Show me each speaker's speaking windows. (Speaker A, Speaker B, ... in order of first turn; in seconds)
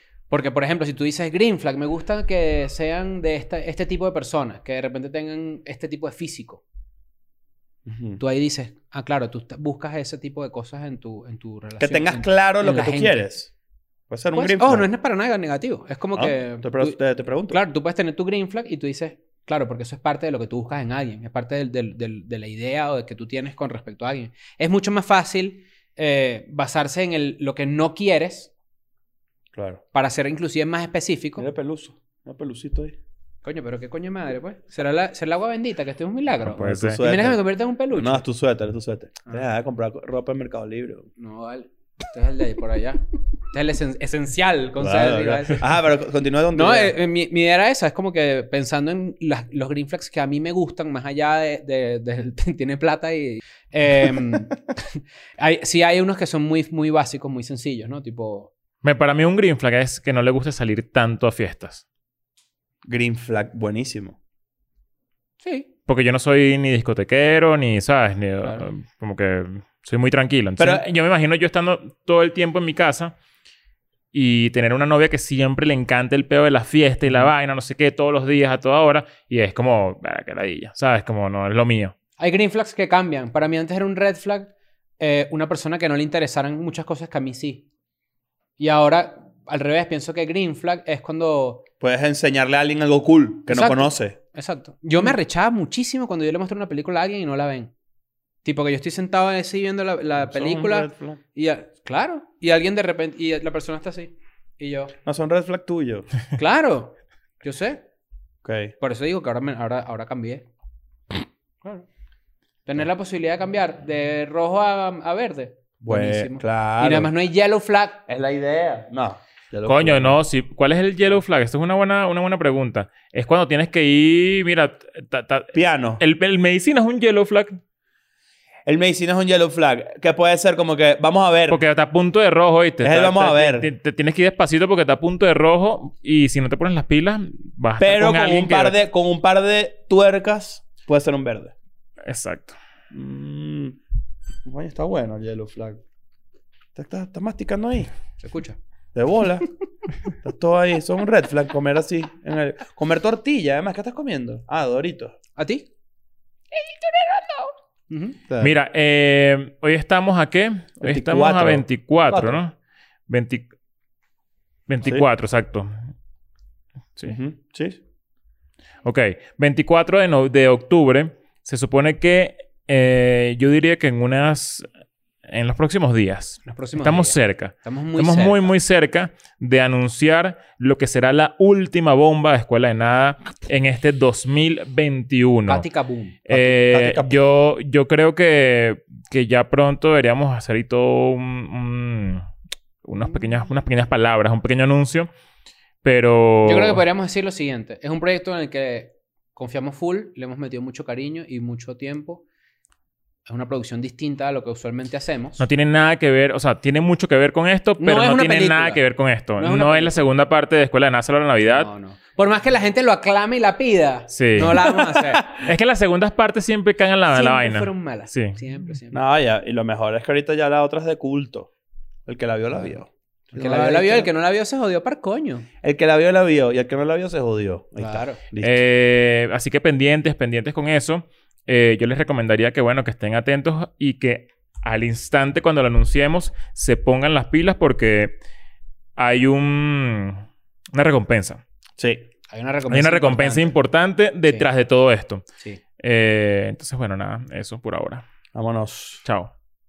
Speaker A: 0.3-6.6, 8.2-13.3, 14.3-17.0, 17.5-28.5, 29.9-31.5, 33.4-38.2, 41.2-45.7, 46.5-58.5, 65.4-65.7, 82.2-87.7, 88.6-91.7, 93.5-97.7, 98.4-105.0, 106.3-107.8, 108.8-110.5, 112.7-118.0, 148.2-148.6, 155.4-155.7, 156.9-158.2, 176.4-178.5, 185.5-186.2, 196.4-202.2, 203.3-205.4, 207.8-208.8, 209.4-210.1, 211.4-215.3, 217.1-219.0, 223.3-225.5, 227.8-228.2, 242.3-243.6
Speaker B: 7.9-8.2, 11.8-13.5, 14.1-14.9, 16.1-17.6, 29.5-29.8, 31.4-33.0, 36.7-37.4, 37.9-41.1, 44.8-47.0, 62.9-64.2, 70.6-70.8, 91.8-94.2, 100.2-101.2, 105.0-106.1, 108.4-108.7, 115.8-117.1, 118.1-120.2, 125.5-126.0, 128.7-131.6, 132.8-133.7, 137.8-141.5, 142.9-143.8, 144.4-145.8, 146.8-147.9, 148.9-149.5, 150.2-155.2, 160.8-162.4, 167.1-167.8, 186.3-187.2, 214.6-215.0, 218.9-221.5, 222.1-224.1, 225.6-228.6, 241.8-242.1, 248.3-249.0
Speaker C: 36.4-37.0, 58.8-61.8, 65.9-73.1, 74.1-81.9, 119.7-127.6, 131.5-138.8, 142.1-142.6, 158.4-162.6, 163.1-163.5, 164.7-165.7, 168.8-174.7, 175.3-185.7, 186.3-192.2, 192.8-195.1, 195.8-196.8, 205.4-211.7, 214.1-214.6, 215.2-218.4, 228.4-238.2, 239.0-241.4, 242.7-245.3, 245.8-248.1, 249.0-249.3